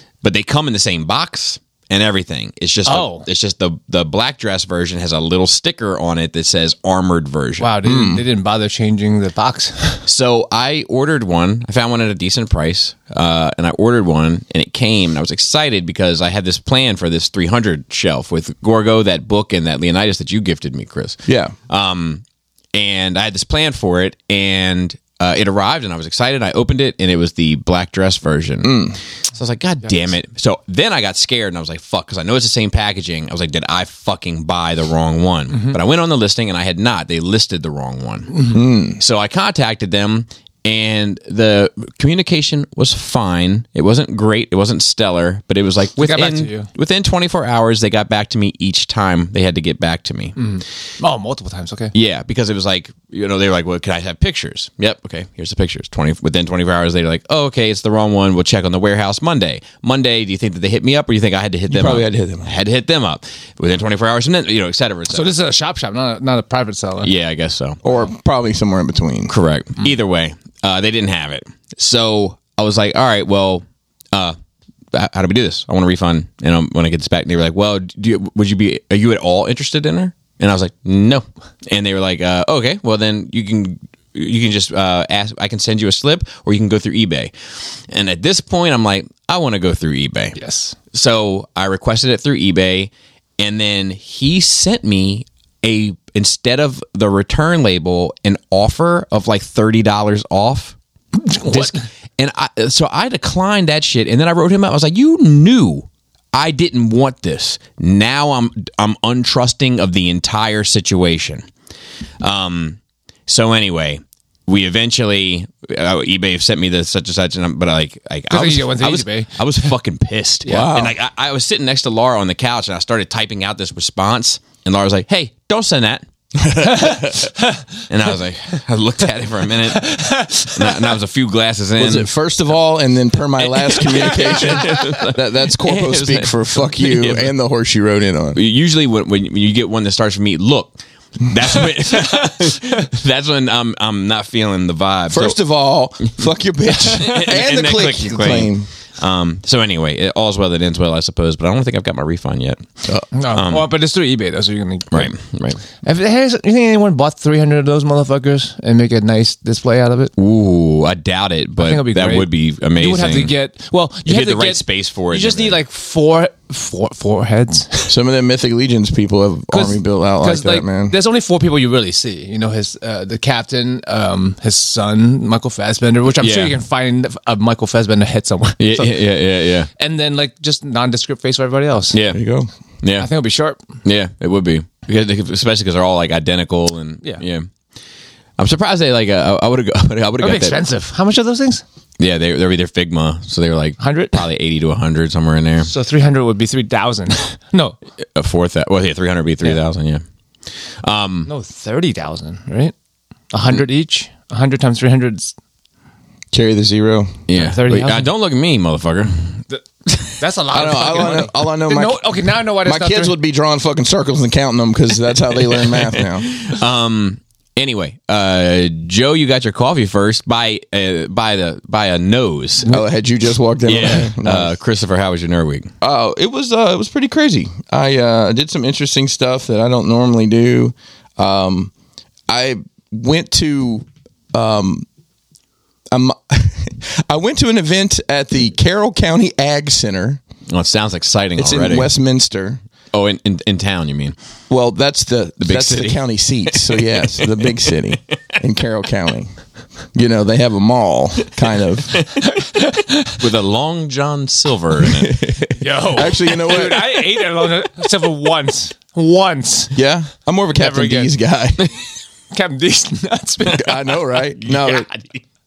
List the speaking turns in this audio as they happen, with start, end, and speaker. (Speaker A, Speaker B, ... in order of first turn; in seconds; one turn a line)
Speaker A: 0.2-7.7
Speaker B: 2.9-3.3
Speaker B: 7.6-10.1
Speaker C: 7.8-8.2
Speaker A: 10.1-50.5
Speaker C: 21.3-21.5
Speaker C: 28.6-29.0
Speaker C: 38.5-39.0
Speaker B: 46.0-46.7
Speaker B: 50.4-51.9
Speaker A: 51.9-65.3
Speaker C: 61.7-62.5
Speaker B: 65.1-67.1
Speaker A: 67.0-67.8
Speaker C: 67.8-69.3
Speaker A: 69.3-74.4
Speaker A: 74.9-87.3
Speaker A: 87.9-90.4
Speaker B: 90.4-90.8
Speaker A: 90.9-100.8
Speaker B: 101.3-101.8
Speaker A: 101.3-111.5
Speaker A: 112.2-126.1
Speaker B: 118.3-119.7
Speaker C: 120.5-121.0
Speaker C: 126.4-127.3
Speaker B: 126.7-127.6
Speaker A: 127.9-129.9
Speaker B: 129.7-130.9
Speaker A: 130.5-132.1
Speaker C: 131.8-138.4
Speaker A: 133.6-137.3
Speaker B: 133.9-134.6
Speaker A: 138.3-145.4
Speaker C: 145.1-148.7
Speaker A: 147.0-152.7
Speaker B: 153.1-155.1
Speaker A: 153.3-153.7
Speaker A: 154.9-155.6
Speaker B: 155.8-160.1
Speaker A: 160.2-163.3
Speaker B: 161.6-167.9
Speaker A: 164.1-165.6
Speaker C: 167.9-171.0
Speaker B: 169.5-179.1
Speaker A: 176.2-176.6
Speaker A: 178.6-179.7
Speaker B: 179.7-182.0
Speaker A: 181.9-182.2
Speaker C: 182.1-182.5
Speaker A: 182.8-183.1
Speaker B: 183.0-183.6
Speaker A: 183.8-187.5
Speaker A: 188.4-190.6
Speaker B: 190.2-191.6
Speaker A: 192.0-195.7
Speaker B: 193.8-194.2
Speaker B: 195.6-197.8
Speaker A: 198.2-200.0
Speaker A: 200.8-201.3
Speaker B: 201.3-202.7
Speaker B: 203.3-205.3
Speaker C: 206.3-207.2
Speaker A: 207.3-210.1
Speaker B: 207.3-208.1
Speaker B: 209.5-213.2
Speaker C: 210.5-216.3
Speaker A: 215.6-222.7
Speaker C: 222.7-224.6
Speaker A: 223.7-225.7
Speaker C: 225.8-231.7
Speaker C: 232.3-234.9
Speaker C: 235.9-240.2
Speaker A: 240.5-241.9
Speaker C: 241.4-242.6
Speaker A: 242.9-244.2
Speaker C: 244.5-249.3
Speaker A: 245.4-247.4
Speaker C: 249.9-252.0
Speaker B: 252.3-253.2
Speaker A: 253.2-255.2
Speaker C: 254.8-257.1
Speaker B: 255.6-259.8
Speaker C: 259.7-261.7
Speaker B: 260.5-261.1
Speaker B: 262.3-263.9
Speaker C: 263.5-264.9
Speaker A: 264.4-265.2